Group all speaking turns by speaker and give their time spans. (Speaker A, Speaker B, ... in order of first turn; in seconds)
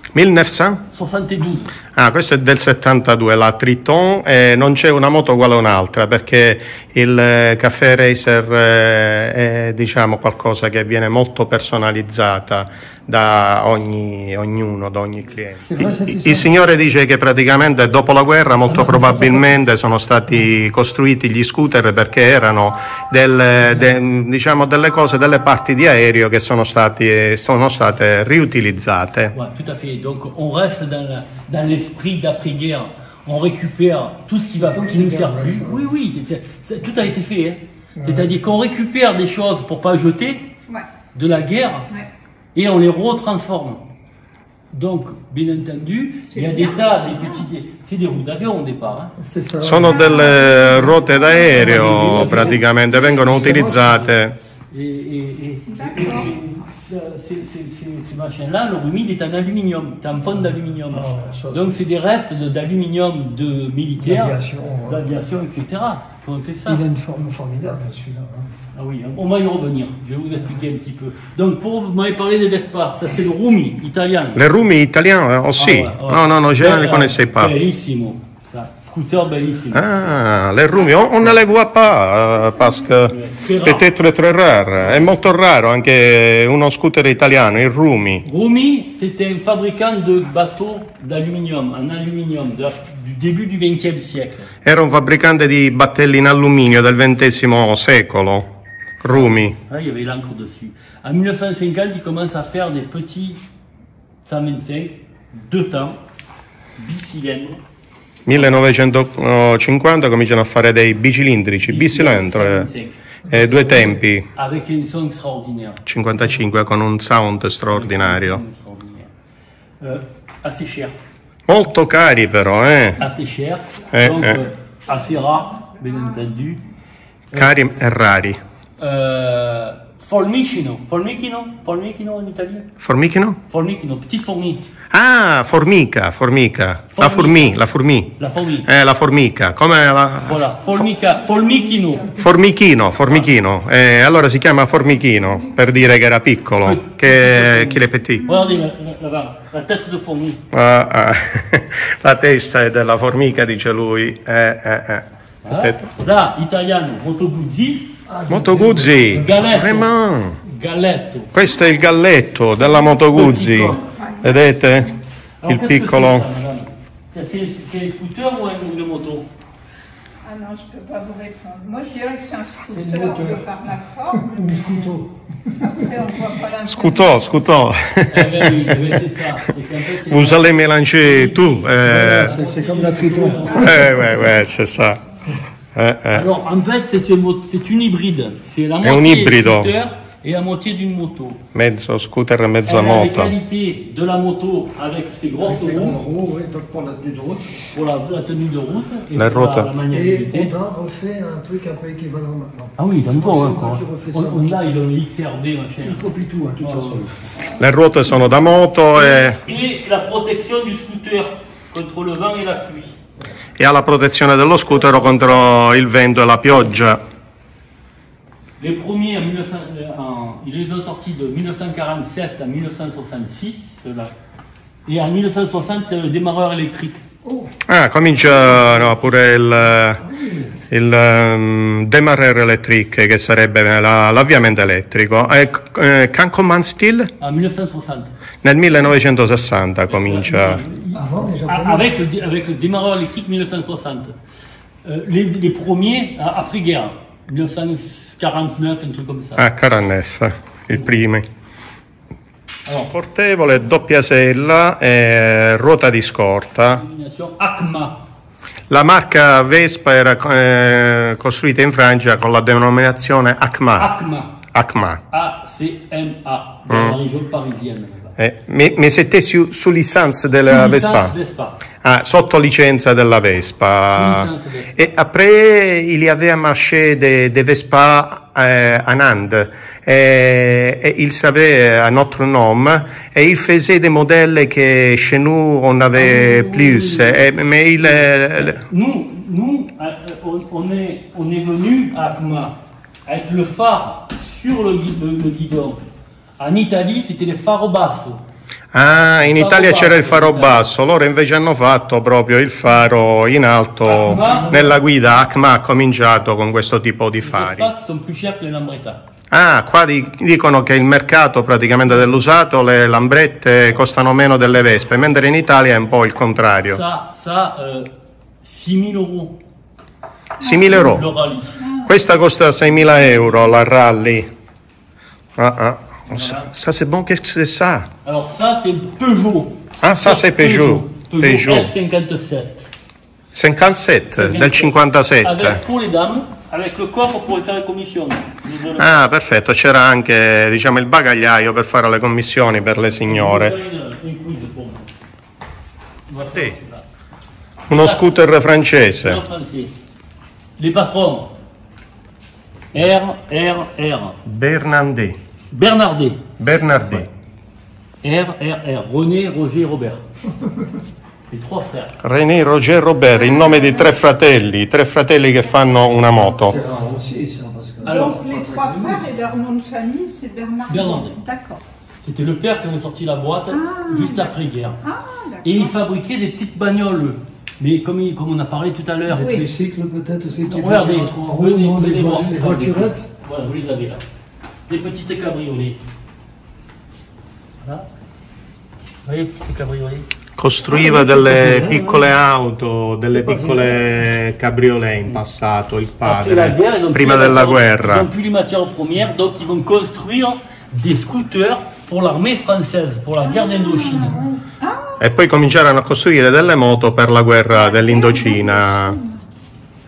Speaker A: 0.1-0.9, 1.9-29.3, 49.6-54.4, 74.3-77.5, 79.7-88.2, 94.6-98.5, 99.0-99.6, 108.3-112.7, 113.3-114.3, 115.8-118.4, 121.5-123.0, 123.9-124.4, 127.3-128.4, 132.8-133.4, 134.9-140.7, 142.2-148.3, 150.5-155.9, 158.3-160.4, 161.3-166.3, 176.7-179.0, 180.1-182.4, 183.6-185.0, 185.7-186.3, 188.8-189.7, 191.5-193.3, 199.2-199.7, 207.6-209.4, 213.6-217.0, 227.7-230.0, 230.7-237.1, 238.4-240.6, 249.4-251.3, 252.9-256.8, 258.7-264.0, 264.5-265.0, 266.7-267.0, 268.2-271.1, 271.8-288.6, 298.7-307.7, 309.3-316.8, 320.4-321.1, 321.8-324.3, 325.4-327.9, 329.8-331.7, 333.3-335.6, 338.8-343.6, 346.2-346.6, 347.7-349.2, 354.2-355.2, 356.4-357.1, 362.0-366.6, 390.4-398.1, 405.0-409.0
Speaker B: 0.9-1.8, 29.3-40.5, 41.1-41.9, 42.5-43.9, 44.7-49.2, 51.4-54.1, 54.7-66.8, 68.7-74.5, 75.6-79.9, 83.1-83.9, 88.2-94.5, 99.1-103.4, 104.2-106.0, 106.8-107.6, 108.3-108.6, 111.7-115.8, 117.7-119.1, 119.8-121.0, 123.0-126.6, 127.3-127.6, 128.8-132.7, 133.5-134.7, 136.9-137.6, 138.2-138.7, 140.2-142.2, 146.7-150.4, 155.4-158.0, 159.1-161.3, 163.1-163.8, 165.4-169.3, 178.1-184.1, 186.1-191.4, 192.7-196.0, 197.7-200.5, 202.8-206.0, 206.6-207.1, 209.0-212.9, 218.6-224.1, 224.9-227.0, 228.3-228.8, 237.2-238.1, 239.9-244.2, 244.8-249.5, 252.7-252.9, 256.7-258.0, 263.8-264.4, 265.1-268.2, 270.5-271.7, 273.9-274.8, 285.9-295.9, 296.4-298.2, 299.2-300.7, 303.9-304.8, 307.2-309.0, 316.6-317.9, 318.4-319.4, 320.5-321.6, 322.7-323.5, 326.1-326.5, 328.1-332.7, 334.1-339.1, 343.1-344.9, 346.1-346.9, 347.7-348.1, 348.9-349.7, 350.6-351.3, 352.7-354.2, 355.5-356.2, 358.0-360.0, 361.3-362.0, 367.8-369.1, 370.7-371.2, 372.0-374.8, 375.4-379.4, 380.5-384.0, 384.7-385.8, 387.6-387.9, 389.0-390.1, 396.0-404.3
Speaker C: 15.7-16.5, 34.6-35.9, 38.0-38.3, 49.2-51.0, 53.3-54.0, 60.2-61.8, 64.0-65.0, 66.7-68.5, 158.1-159.3, 172.7-173.5, 174.1-175.8, 181.8-184.2, 195.4-197.7, 199.9-204.6, 205.8-207.3, 227.2-227.6, 228.4-228.7, 230.0-230.6, 240.9-241.9, 366.2-368.9, 379.1-383.1, 390.7-392.1, 393.1-393.8
Speaker D: 46.3-47.4, 49.8-52.4, 55.7-56.3, 163.8-164.3, 170.2-175.0, 175.6-177.3, 321.6-322.0, 363.1-363.9, 367.8-371.6, 373.5-375.7, 379.1-379.5, 403.3-405.0, 407.6-409.2